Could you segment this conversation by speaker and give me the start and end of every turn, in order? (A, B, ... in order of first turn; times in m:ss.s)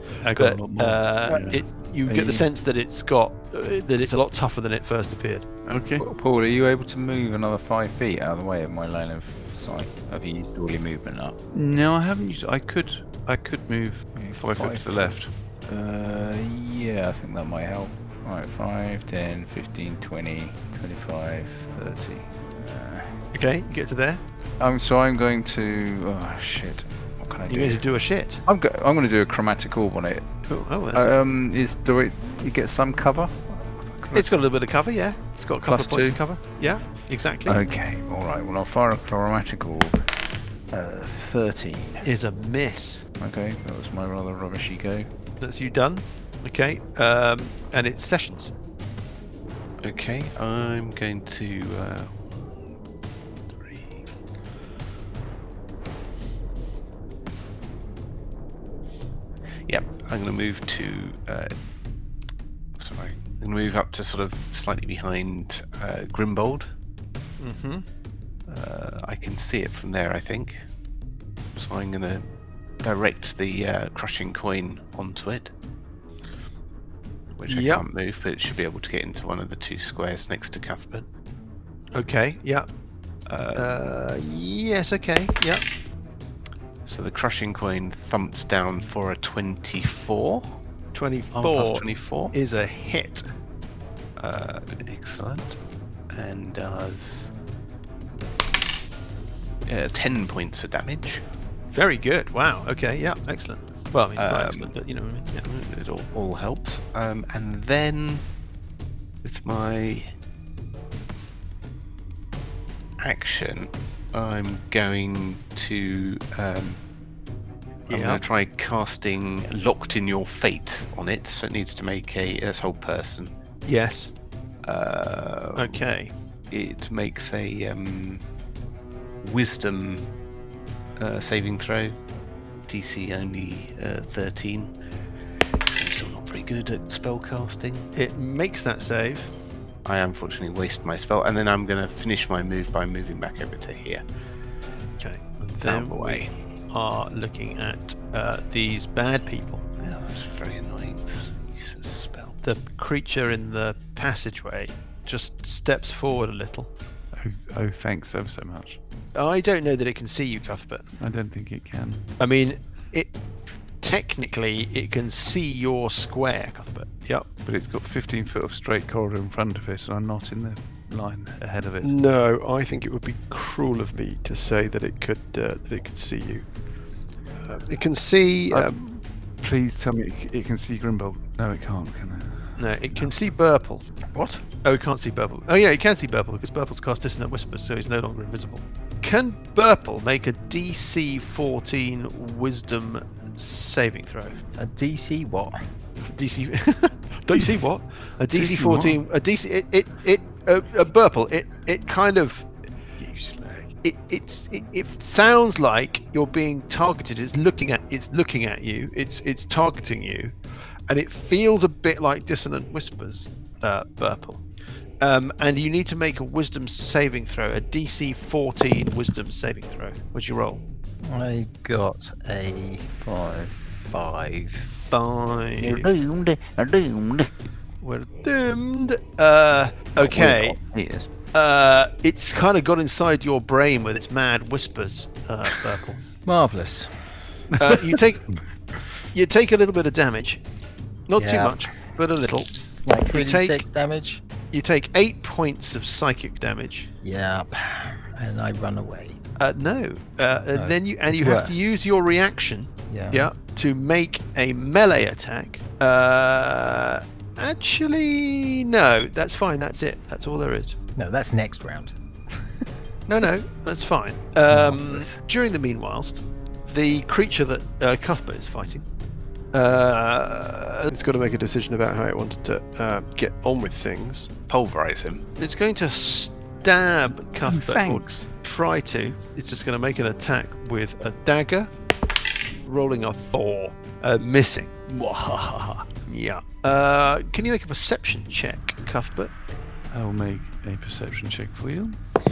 0:00.2-0:01.6 A
0:00.3-0:05.5 B
0:02.0-0:02.5 C
0:05.7-0:06.0 A
0:06.0-0:11.4 C
0:11.5-0:15.3 A
0:14.1-0:23.2 C
0:23.3-0:24.2 B
0:24.6-0:27.9 C
0:27.4-0:28.4 B
0:28.4-0:34.4 C
0:30.5-0:31.1 B
0:34.1-0:37.6 B
0:35.6-0:36.2 C
0:37.4-0:40.0 C
0:40.7-0:42.0 C
0:42.0-0:43.0 B
0:43.2-0:45.1 C
0:45.4-0:48.5 B
0:49.8-0:52.4 D
0:53.5-0:54.0 D
0:59.7-1:01.5 D
1:02.8-1:06.7 D
1:07.4-1:07.8 B
1:08.5-1:10.6 D
1:11.5-1:12.2 D
1:12.8-1:15.5 D
1:17.4-1:21.1 D
1:17.5-1:17.8 B
1:21.9-1:22.7 B
1:23.3-1:23.8 D
1:23.5-1:25.6 B
1:26.8-1:30.6 D
1:30.9-1:33.2 B
1:31.3-1:32.3 D
1:34.2-1:35.6 D
1:36.1-1:37.3 D
1:39.6-1:41.2 D
1:41.7-1:45.4 B
1:44.2-1:44.7 D
1:45.4-1:48.2 D
1:49.2-1:50.1 D
1:53.0-1:56.8 D
1:57.9-2:03.3 D
1:57.9-1:58.2 B
2:03.6-2:04.1 B
2:04.6-2:05.9 D
2:05.6-2:06.1 B
2:06.5-2:08.2 D
2:09.2-2:10.1 D
2:11.0-2:12.0 D
2:12.7-2:14.7 D
2:15.6-2:17.9 D
2:17.9-2:19.3 B
2:19.8-2:24.0 D
2:25.0-2:29.6 B
2:25.6-2:26.4 D
2:29.8-2:32.4 D
2:32.4-2:36.7 B
2:37.1-2:38.8 A
2:39.1-2:40.9 B
2:41.0-2:42.0 A
2:42.2-2:43.1 B
2:43.8-2:47.3 B
2:47.4-2:51.9 A
2:51.8-2:56.4 B
2:57.4-2:58.7 B
2:58.5-3:03.1 A
3:02.6-3:14.4 B
3:14.6-3:15.6 E
3:16.0-3:22.5 B
3:18.3-3:19.0 A
3:23.0-3:23.7 A
3:23.8-3:30.3 B
3:30.9-3:34.4 B
3:35.0-3:40.6 B
3:41.0-3:43.0 E
3:43.0-3:43.5 C
3:43.6-3:44.7 E
3:44.9-3:45.9 B
3:45.6-3:47.3 C
3:47.8-3:50.6 B
3:50.0-3:51.1 C
3:51.3-3:56.0 B
3:56.2-3:57.0 E
3:57.6-3:58.3 B
3:59.1-4:00.4 B
4:01.1-4:02.5 B
4:01.2-4:01.6 E
4:02.8-4:04.2 E
4:03.1-4:03.6 B
4:04.5-4:06.9 B
4:07.0-4:09.2 E
4:09.4-4:20.8 B
4:10.5-4:11.8 E
4:12.9-4:13.3 E
4:21.0-4:21.9 E
4:23.1-4:28.8 B
4:29.5-4:34.3 B
4:34.5-4:35.2 D
4:35.4-4:41.7 B
4:37.4-4:38.2 A
4:42.6-4:44.7 B
4:44.9-4:45.8 A
4:46.1-4:49.3 B
4:49.9-4:52.0 A